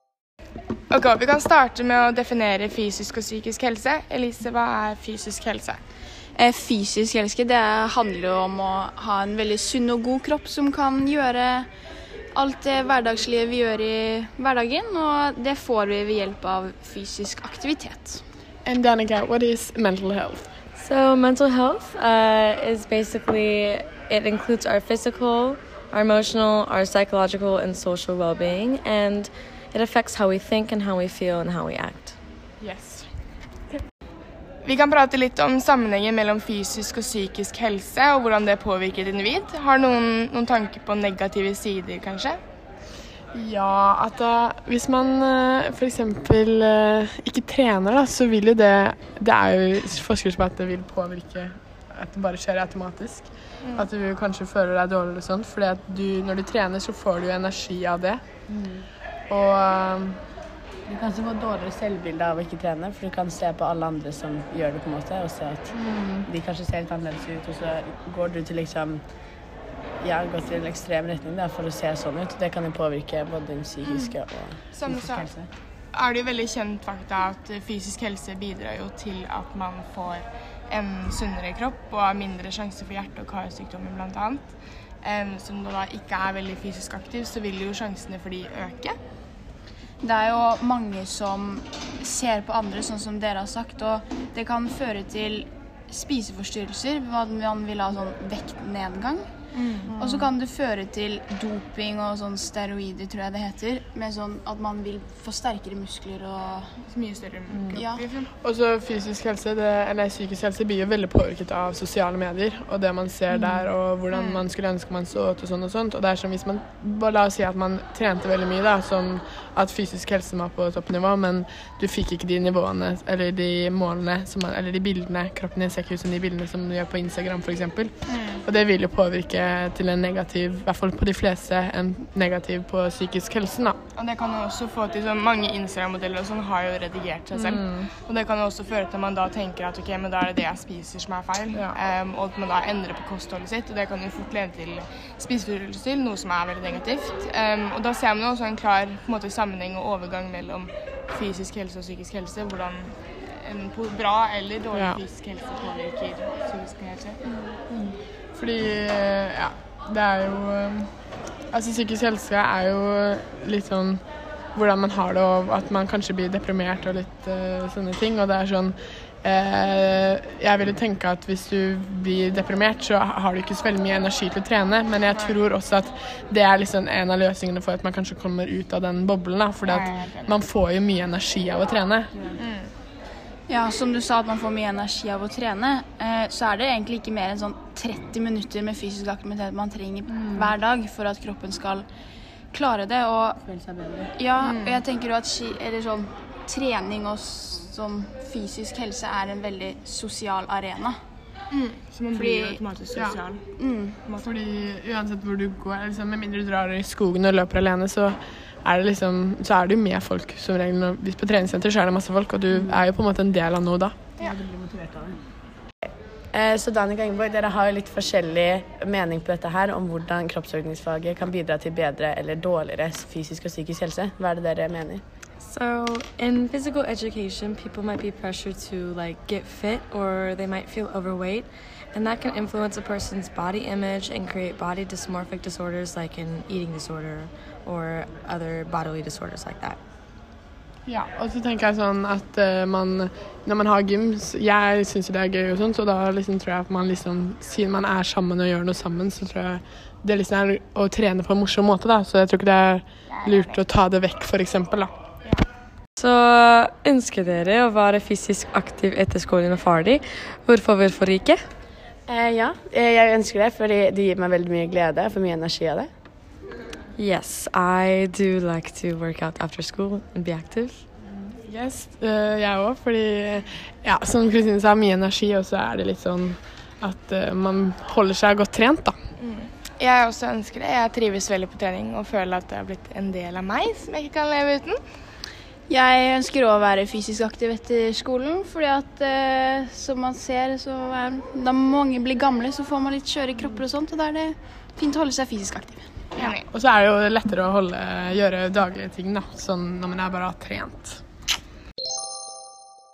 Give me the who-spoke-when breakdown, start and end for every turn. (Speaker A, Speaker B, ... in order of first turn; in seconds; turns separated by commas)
Speaker A: 0.9-5.8, Speaker B: 6.3-11.7, Speaker B: 12.3-18.2, Speaker C: 18.6-20.5, Speaker D: 20.8-32.1, Speaker C: 32.6-33.1, Speaker A: 34.6-42.4, Speaker C: 43.3-58.2, Speaker E: 58.5-58.9, Speaker C: 59.3-60.2, Speaker E: 60.9-69.0, Speaker C: 65.7-66.2, Speaker E: 70.0-75.5, Speaker A: 73.8-74.2, Speaker A: 74.7-75.3, Speaker A: 75.9-84.5, Speaker A: 85.0-89.0, Speaker B: 90.0-99.2, Speaker A: 99.5-100.3, Speaker B: 100.0-106.7, Speaker A: 106.8-108.3, Speaker B: 107.7-108.0, Speaker C: 108.4-127.9, Speaker A: 114.1-114.5, Speaker A: 128.1-128.4, Speaker C: 128.4-133.8, Speaker A: 133.9-157.2, Speaker C: 137.3-137.9, Speaker C: 154.7-155.0, Speaker C: 158.3-160.9, Speaker C: 161.5-164.0, Speaker C: 164.6-182.3, Speaker A: 175.1-175.4, Speaker A: 179.6-180.4, Speaker A: 182.4-182.7, Speaker B: 183.5-191.9, Speaker E: 190.1-190.5, Speaker B: 192.5-193.4, Speaker E: 193.5-194.1, Speaker B: 194.1-201.0, Speaker A: 194.4-194.8, Speaker A: 201.5-203.4, Speaker B: 202.1-202.6, Speaker B: 203.6-204.0, Speaker C: 204.2-214.0, Speaker E: 212.6-212.8, Speaker E: 214.2-215.2, Speaker E: 216.3-225.0, Speaker D: 225.4-239.8, Speaker C: 240.9-254.9, Speaker A: 253.1-253.6, Speaker D: 256.0-261.4, Speaker E: 262.1-265.9, Speaker D: 267.0-270.8, Speaker C: 271.4-279.0, Speaker A: 279.2-284.8, Speaker B: 285.7-296.2, Speaker A: 296.2-296.4, Speaker C: 296.5-301.0